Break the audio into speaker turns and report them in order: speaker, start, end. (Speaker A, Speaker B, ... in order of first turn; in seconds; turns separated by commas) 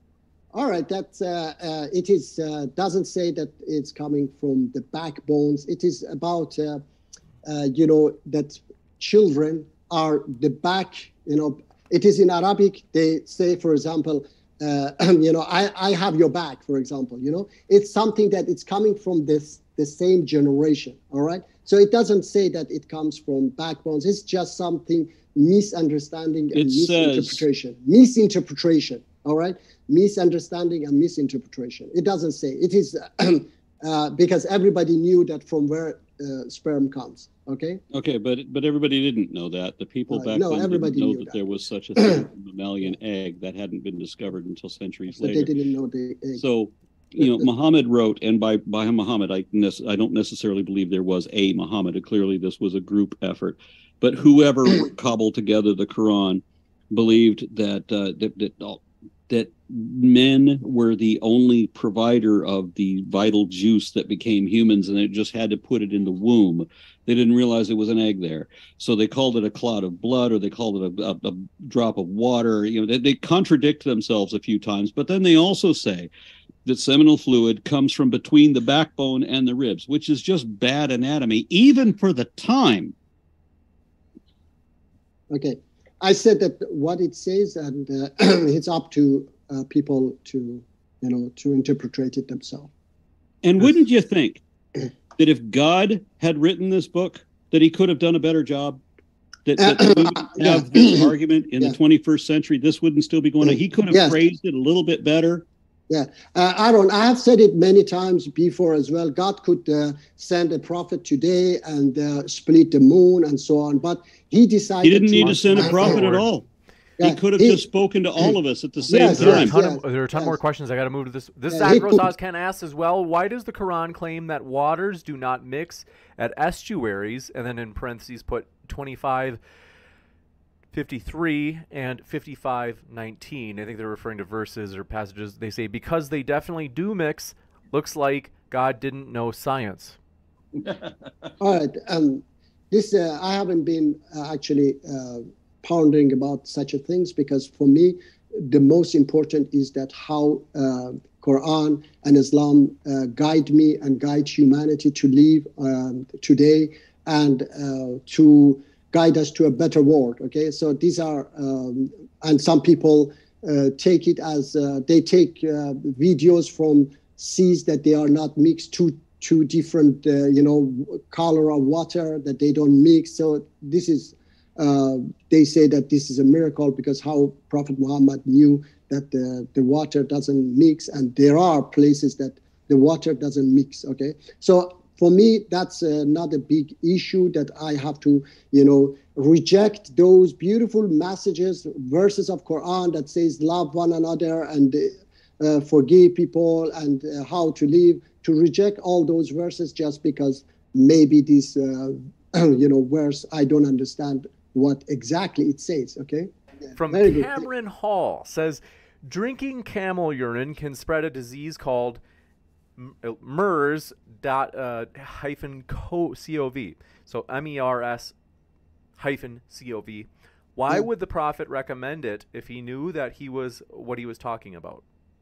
Speaker A: 0.5-6.8, Speaker A: 7.5-37.8, Speaker B: 26.5-27.4, Speaker B: 37.9-45.5, Speaker A: 40.1-41.4, Speaker A: 45.1-46.4, Speaker B: 46.4-76.1, Speaker A: 47.2-47.4, Speaker B: 76.7-82.9, Speaker A: 85.3-92.7, Speaker B: 93.4-94.4, Speaker B: 95.2-98.8, Speaker B: 99.5-105.5, Speaker A: 99.6-101.1, Speaker A: 103.4-104.2, Speaker A: 105.9-116.2, Speaker B: 114.8-116.5, Speaker C: 115.3-116.2, Speaker A: 117.0-117.6, Speaker B: 117.0-119.5, Speaker A: 118.9-120.4, Speaker C: 119.0-129.4, Speaker A: 121.5-122.1, Speaker C: 130.7-140.0, Speaker B: 140.6-141.3, Speaker A: 141.4-206.3, Speaker C: 206.8-212.0, Speaker A: 206.9-207.5, Speaker C: 212.8-218.2, Speaker C: 219.0-224.8